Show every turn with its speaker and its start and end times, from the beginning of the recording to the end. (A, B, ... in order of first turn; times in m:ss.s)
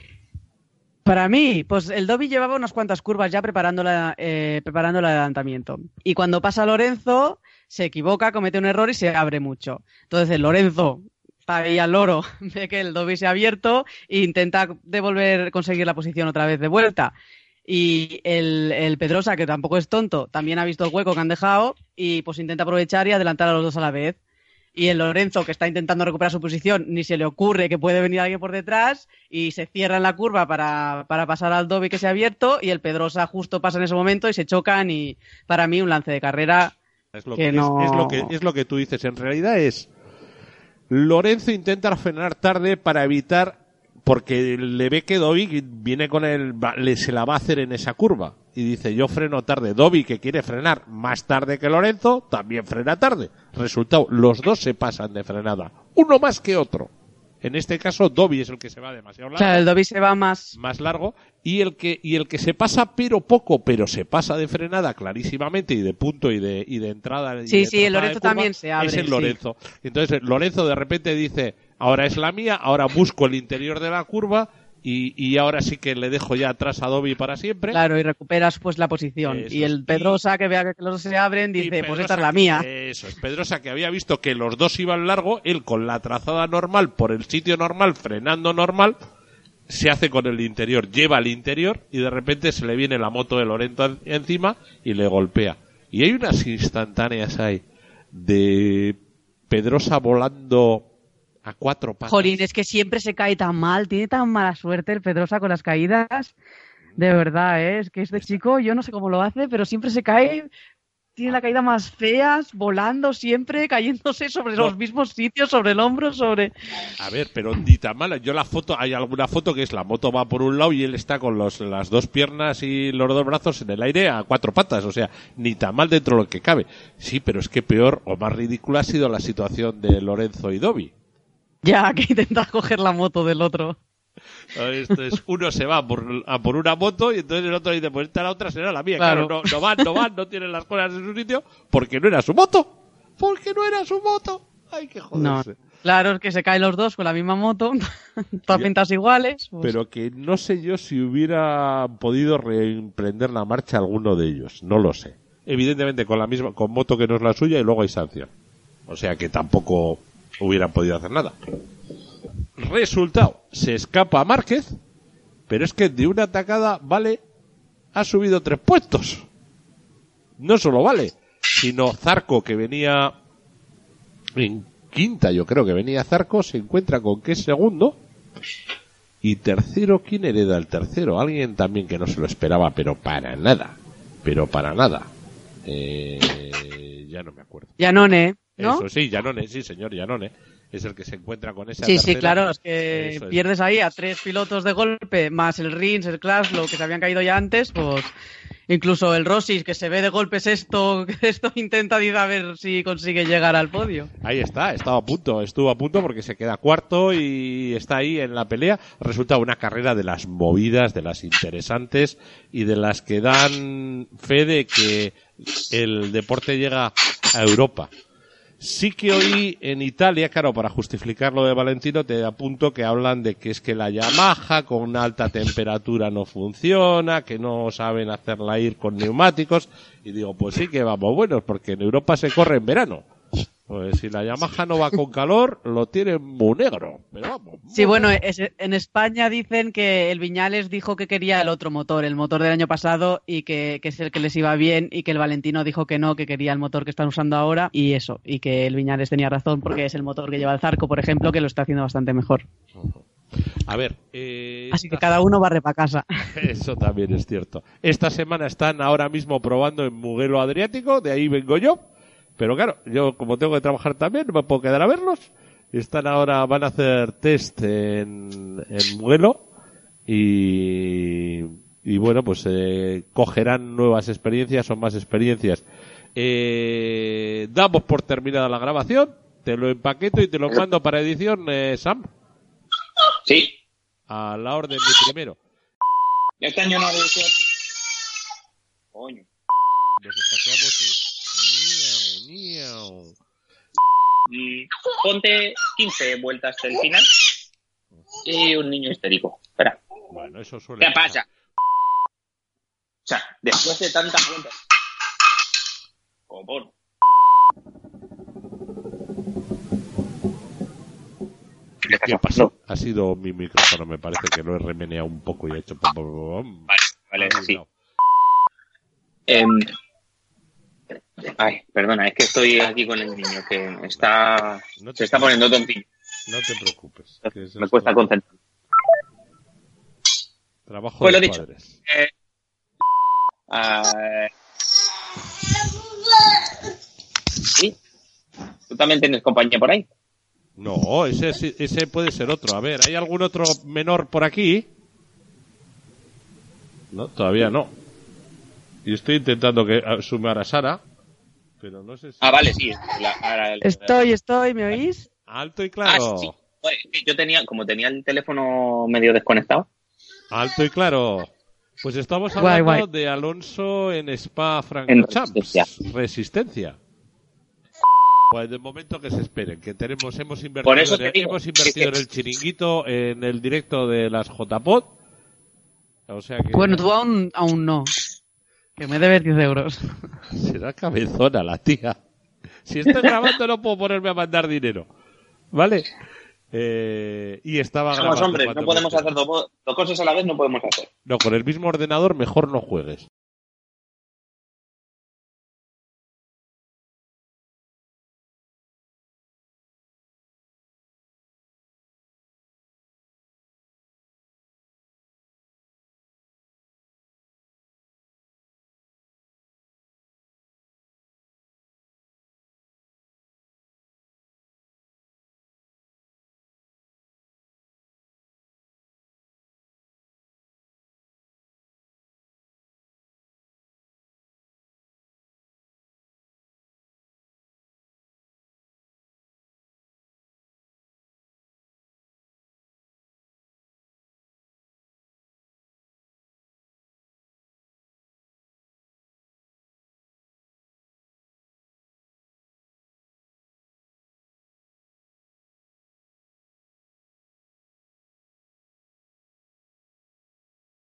0:01.0-0:17.1 A
0:17.7-0:24.2 A
0:24.8-0:36.8 A
0:37.1-0:39.9 B
0:37.4-0:38.3 A
0:40.9-0:56.9 B
0:57.4-0:59.6 B
0:59.4-1:00.5 A
1:00.6-1:17.8 B
1:07.5-1:09.4 A
1:17.7-1:22.6 A
1:19.3-1:20.2 B
1:21.6-1:29.0 B
1:29.7-1:39.0 B
1:39.5-1:40.9 B
1:41.4-1:42.4 B
1:42.1-1:46.3 A
1:47.0-1:50.5 A
1:51.2-1:56.5 A
1:57.0-2:10.9 B
2:11.6-2:13.8 A
2:14.5-2:25.6 B
2:19.0-2:19.4 A
2:25.1-2:27.9 A
2:28.4-2:29.7 A
2:29.6-2:38.3 B
2:38.9-2:41.3 B
2:42.6-2:44.7 B
2:45.5-2:47.2 B
2:47.9-2:49.3 B
2:50.4-2:53.1 B
2:54.4-2:58.0 B
2:59.2-3:05.1 B
3:05.6-3:07.7 B
3:07.8-3:08.8 A
3:08.6-3:13.4 B
3:11.8-3:18.1 A
3:18.7-3:24.1 A
3:24.2-3:37.9 B
3:38.6-3:53.0 B
3:53.7-3:58.1 B
3:57.7-4:12.4 A
4:12.8-4:13.0 B
4:13.7-4:15.2 B
4:14.7-4:16.0 A
4:16.3-4:21.8 B
4:22.4-4:29.4 B
4:30.1-4:42.1 B
4:43.3-4:43.5 C
4:44.1-4:45.4 B
4:46.4-4:47.5 C
4:48.9-4:49.2 C
4:50.0-4:53.2 B
4:54.3-4:57.1 C
4:58.2-4:59.8 C
5:00.1-5:01.2 B
5:00.8-5:01.2 C
5:03.0-5:04.6 C
5:06.3-5:06.7 C
5:11.8-5:12.5 C
5:11.9-5:17.7 B
5:16.7-5:17.6 C
5:19.3-5:19.7 C
5:21.4-5:25.9 C
5:24.8-5:25.3 B
5:26.3-5:28.0 B
5:27.6-5:28.2 C
5:30.7-5:31.8 B
5:31.0-5:32.1 C
5:33.5-5:34.3 C
5:38.7-5:39.9 C
5:40.6-5:44.7 B
5:46.9-5:47.7 B
5:48.8-5:50.8 B
5:51.6-5:52.5 B
5:52.2-5:53.9 C
5:53.6-5:55.1 A
5:55.3-5:56.3 B
5:55.9-5:59.7 C
6:00.3-6:06.8 B
6:02.4-6:02.8 A
6:04.9-6:05.6 C
6:08.3-6:14.9 B
6:10.6-6:11.9 C
6:16.1-6:16.8 B
6:16.6-6:17.9 A
6:18.8-6:20.0 A
6:20.3-6:22.0 B
6:22.6-6:24.9 B
6:25.5-6:25.9 B
6:26.5-6:29.1 B
6:28.0-6:30.9 C
6:31.0-6:33.1 B